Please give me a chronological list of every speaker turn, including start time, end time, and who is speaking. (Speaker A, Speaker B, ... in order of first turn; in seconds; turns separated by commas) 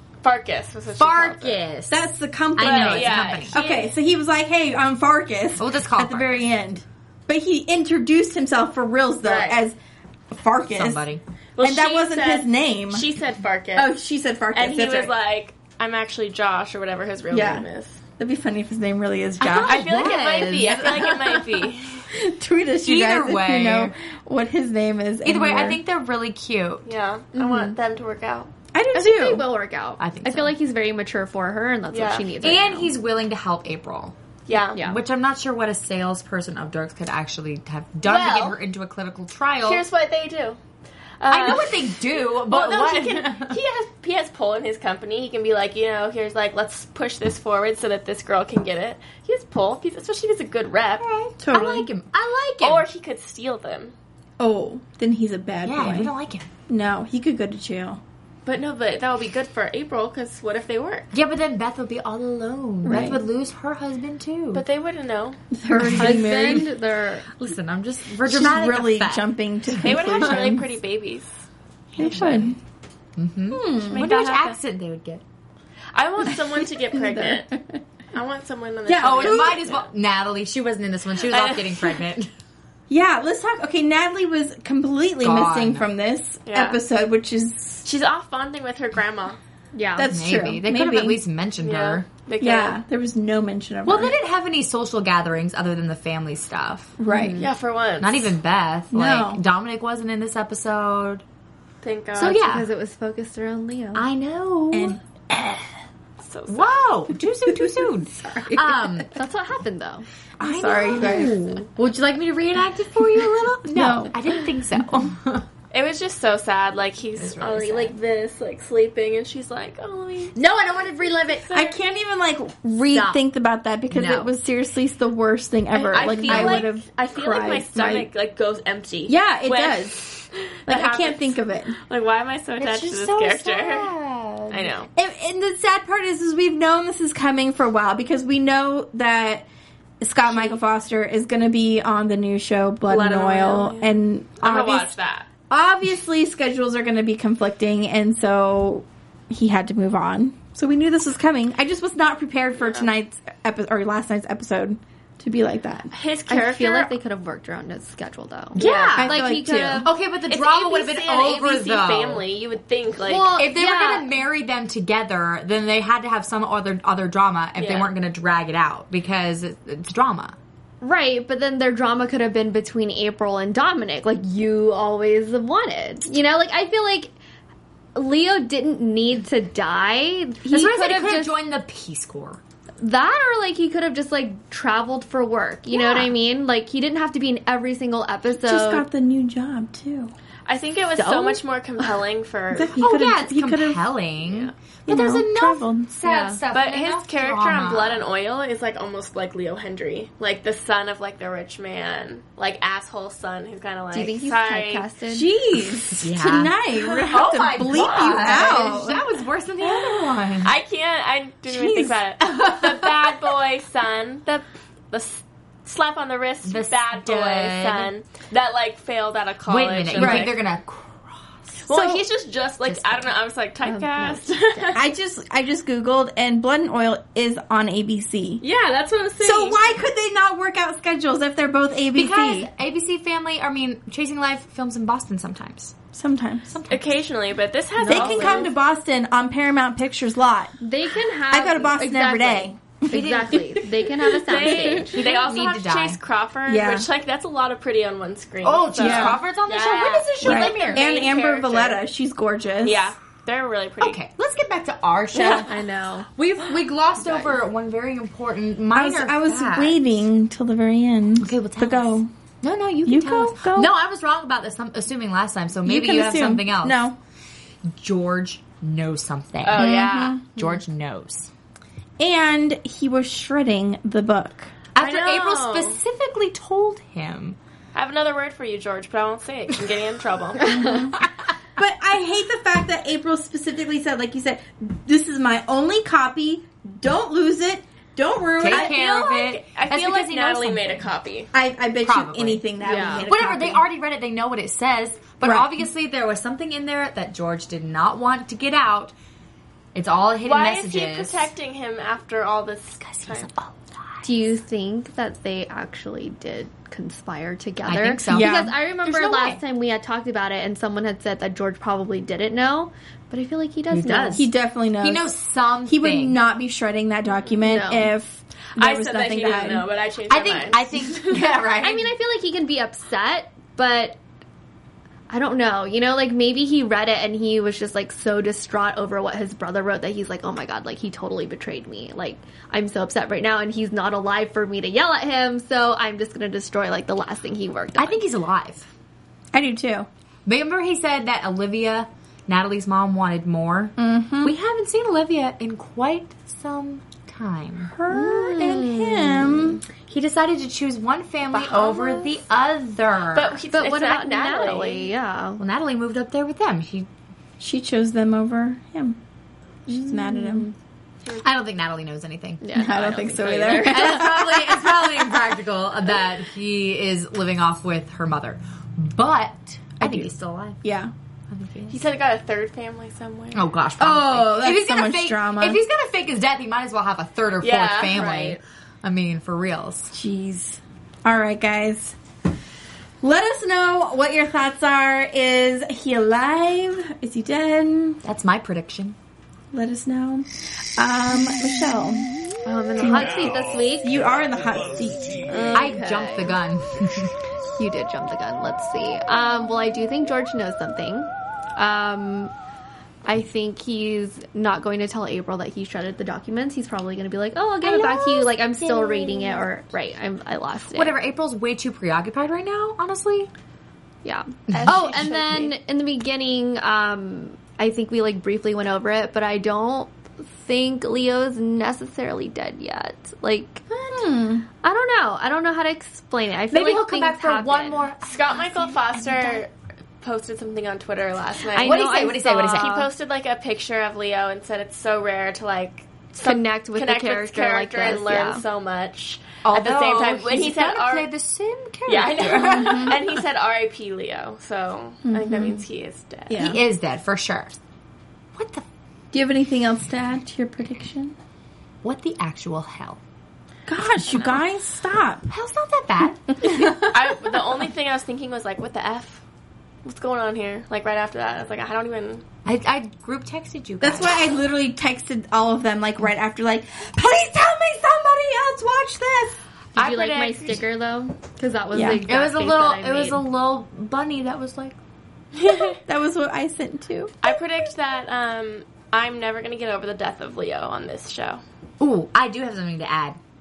Speaker A: 0.2-1.6, Speaker B: 1.0-2.0, Speaker C: 1.9-9.8, Speaker B: 2.6-3.6, Speaker A: 2.6-3.9, Speaker B: 5.6-6.4, Speaker A: 9.2-9.6, Speaker C: 10.3-11.1, Speaker B: 10.7-11.2, Speaker A: 11.6-13.9, Speaker C: 11.6-13.1, Speaker C: 13.8-15.1, Speaker A: 14.5-18.0, Speaker C: 17.3-17.7, Speaker C: 18.2-19.9, Speaker B: 19.4-21.5, Speaker A: 19.6-22.1, Speaker C: 22.1-25.8, Speaker B: 22.9-23.9, Speaker B: 25.2-26.9, Speaker A: 26.9-28.5, Speaker D: 27.4-27.7, Speaker C: 28.7-29.5, Speaker D: 28.9-32.9, Speaker B: 30.0-30.5, Speaker A: 31.9-32.3, Speaker B: 32.4-34.1, Speaker A: 34.5-34.8, Speaker B: 34.8-39.8, Speaker A: 38.0-38.6, Speaker A: 39.6-40.6, Speaker A: 41.2-42.0, Speaker B: 41.3-43.6, Speaker A: 42.5-51.0, Speaker B: 51.0-52.9, Speaker C: 51.4-51.9, Speaker A: 52.6-53.9, Speaker C: 54.4-56.1, Speaker B: 55.6-56.5, Speaker C: 56.7-58.0, Speaker A: 58.5-61.1, Speaker B: 61.1-64.7, Speaker C: 62.8-63.2, Speaker A: 64.5-65.4, Speaker C: 65.5-66.7, Speaker B: 65.8-66.2, Speaker D: 66.0-67.3, Speaker B: 67.4-70.5, Speaker C: 68.2-70.7, Speaker A: 69.8-71.3, Speaker C: 72.0-72.6, Speaker A: 72.0-72.4, Speaker B: 72.0-72.5, Speaker B: 73.2-75.2, Speaker C: 73.5-74.1, Speaker A: 73.9-74.6, Speaker A: 75.9-77.5, Speaker C: 76.6-77.8, Speaker A: 78.1-79.9, Speaker C: 78.9-79.6, Speaker B: 79.0-82.3, Speaker A: 81.3-82.0, Speaker C: 82.9-87.9, Speaker B: 85.2-85.9, Speaker A: 86.5-86.8, Speaker A: 87.8-89.4, Speaker D: 89.7-90.1, Speaker C: 90.0-91.2, Speaker B: 90.1-92.1, Speaker A: 91.6-92.8, Speaker C: 92.4-94.2, Speaker B: 93.9-97.0, Speaker C: 97.0-97.5, Speaker D: 97.1-97.5, Speaker A: 97.4-98.3, Speaker B: 98.0-101.2, Speaker C: 98.9-99.4, Speaker A: 101.8-102.5, Speaker B: 102.2-102.7, Speaker D: 102.3-104.1, Speaker B: 104.0-105.0, Speaker C: 104.7-105.6, Speaker A: 106.2-106.9, Speaker B: 106.5-109.1, Speaker C: 107.5-108.8, Speaker D: 109.1-110.1, Speaker C: 110.4-111.3, Speaker B: 110.4-115.5, Speaker C: 113.7-114.2, Speaker A: 115.7-120.4, Speaker B: 117.2-118.0, Speaker B: 120.3-121.5, Speaker A: 121.4-121.7, Speaker C: 121.5-128.1, Speaker B: 122.9-123.2, Speaker B: 123.9-124.3, Speaker A: 125.7-133.9, Speaker B: 126.2-126.7, Speaker C: 129.1-131.8, Speaker B: 132.6-134.8, Speaker A: 134.5-134.9, Speaker C: 135.0-139.5, Speaker C: 140.0-144.9, Speaker A: 142.9-145.3, Speaker C: 145.5-155.9, Speaker A: 152.6-152.9, Speaker A: 155.9-156.9, Speaker D: 156.3-159.9, Speaker B: 158.6-159.2, Speaker A: 158.6-159.1, Speaker C: 159.0-159.9, Speaker B: 159.8-162.3, Speaker A: 160.3-163.4, Speaker D: 163.1-164.1, Speaker B: 163.4-170.4, Speaker A: 167.6-167.9, Speaker D: 170.8-177.1, Speaker D: 177.9-181.3, Speaker B: 180.5-182.4, Speaker D: 182.8-188.9, Speaker B: 185.7-186.0, Speaker C: 188.3-190.1, Speaker A: 190.5-192.8, Speaker D: 191.0-191.4, Speaker C: 192.5-193.9, Speaker B: 192.8-198.1, Speaker A: 194.2-194.5, Speaker C: 194.9-195.9, Speaker D: 196.0-196.4, Speaker A: 196.5-204.9, Speaker D: 203.9-205.3, Speaker C: 205.1-209.0, Speaker B: 206.0-210.6, Speaker A: 207.7-208.6, Speaker A: 210.4-220.4, Speaker C: 211.5-212.0, Speaker B: 212.2-213.2, Speaker B: 216.4-217.9, Speaker B: 219.5-221.7, Speaker C: 219.9-220.3, Speaker A: 221.7-224.8, Speaker C: 221.7-222.0, Speaker B: 222.6-223.2, Speaker D: 223.6-224.7, Speaker C: 224.7-228.4, Speaker A: 228.4-229.8, Speaker C: 229.2-232.5, Speaker B: 231.9-235.8, Speaker C: 235.9-236.5, Speaker B: 236.5-237.1, Speaker A: 236.7-238.5, Speaker D: 237.8-238.4, Speaker C: 237.8-240.5, Speaker D: 240.6-245.0, Speaker C: 241.3-243.0, Speaker B: 242.9-243.5, Speaker A: 244.3-251.8, Speaker B: 244.8-246.0, Speaker C: 246.5-246.9, Speaker B: 248.4-250.9, Speaker C: 248.8-249.2, Speaker C: 250.2-252.9, Speaker A: 252.6-254.0, Speaker B: 253.8-255.5, Speaker D: 255.1-256.1, Speaker B: 256.2-259.8, Speaker C: 258.7-262.1, Speaker B: 261.2-266.9, Speaker C: 262.8-263.7, Speaker C: 265.6-267.0, Speaker B: 267.7-271.3, Speaker A: 269.4-270.2, Speaker C: 269.5-270.4, Speaker C: 272.0-274.5, Speaker B: 274.8-277.4, Speaker A: 274.8-275.8, Speaker A: 277.8-280.9, Speaker C: 280.4-281.0, Speaker C: 281.6-288.8, Speaker B: 288.4-290.9, Speaker A: 288.5-291.3, Speaker C: 291.3-293.7, Speaker B: 291.8-292.5, Speaker D: 292.6-293.1, Speaker A: 292.7-293.0, Speaker B: 293.1-298.9, Speaker C: 295.2-295.5, Speaker B: 299.8-301.3, Speaker A: 300.2-303.3, Speaker B: 302.8-304.3, Speaker D: 304.0-314.3, Speaker B: 307.6-309.4, Speaker C: 308.1-308.5, Speaker B: 313.7-314.3, Speaker C: 314.1-315.1, Speaker B: 314.8-316.2, Speaker C: 315.7-319.7, Speaker D: 317.4-317.9, Speaker A: 318.6-321.2, Speaker B: 320.1-321.9, Speaker D: 321.6-324.0, Speaker D: 325.1-338.0, Speaker B: 337.8-338.7, Speaker C: 339.3-339.9, Speaker B: 340.3-347.7, Speaker C: 343.8-344.4, Speaker C: 347.7-349.6, Speaker D: 347.9-349.5, Speaker B: 349.9-353.4, Speaker A: 351.3-352.1, Speaker A: 353.1-354.9, Speaker D: 353.5-355.4, Speaker B: 355.4-356.9, Speaker C: 357.4-359.0, Speaker C: 359.7-360.5, Speaker D: 359.7-360.5, Speaker B: 361.2-370.6, Speaker D: 362.4-362.9, Speaker C: 362.5-365.1, Speaker C: 369.8-370.1, Speaker C: 370.6-370.9, Speaker B: 371.3-371.8, Speaker A: 371.7-373.5, Speaker B: 373.3-379.9, Speaker C: 373.8-375.6, Speaker A: 377.4-378.4, Speaker D: 377.9-378.4, Speaker C: 379.9-382.0, Speaker C: 383.0-388.0, Speaker B: 388.0-389.0, Speaker C: 389.5-392.1, Speaker D: 392.4-394.0, Speaker C: 392.8-393.3, Speaker C: 393.8-395.5, Speaker D: 395.3-396.4, Speaker B: 395.5-397.1, Speaker D: 397.6-402.3, Speaker D: 403.1-411.0, Speaker B: 407.6-409.4, Speaker B: 410.7-413.3, Speaker D: 414.0-423.6, Speaker B: 414.5-414.8, Speaker A: 414.5-415.6, Speaker C: 423.7-424.5, Speaker D: 424.6-427.9, Speaker B: 426.5-429.4, Speaker A: 428.0-441.1, Speaker D: 431.5-432.9, Speaker B: 431.6-432.8, Speaker D: 436.2-438.4, Speaker B: 439.4-443.2, Speaker A: 441.9-446.5, Speaker C: 442.3-443.0, Speaker C: 445.1-445.6, Speaker C: 446.3-446.6, Speaker B: 446.4-447.5, Speaker B: 448.4-448.6, Speaker C: 449.1-451.1, Speaker B: 451.8-453.0, Speaker C: 453.7-455.3, Speaker A: 453.8-454.4, Speaker B: 455.3-457.2, Speaker C: 456.4-456.7, Speaker A: 456.9-459.2, Speaker A: 459.8-462.2, Speaker B: 462.4-464.3, Speaker C: 463.8-469.4, Speaker A: 469.8-470.6, Speaker D: 469.8-473.2, Speaker C: 471.7-472.0, Speaker B: 472.1-474.8, Speaker A: 475.3-475.8, Speaker C: 475.7-477.2, Speaker A: 477.2-481.4, Speaker B: 481.8-483.2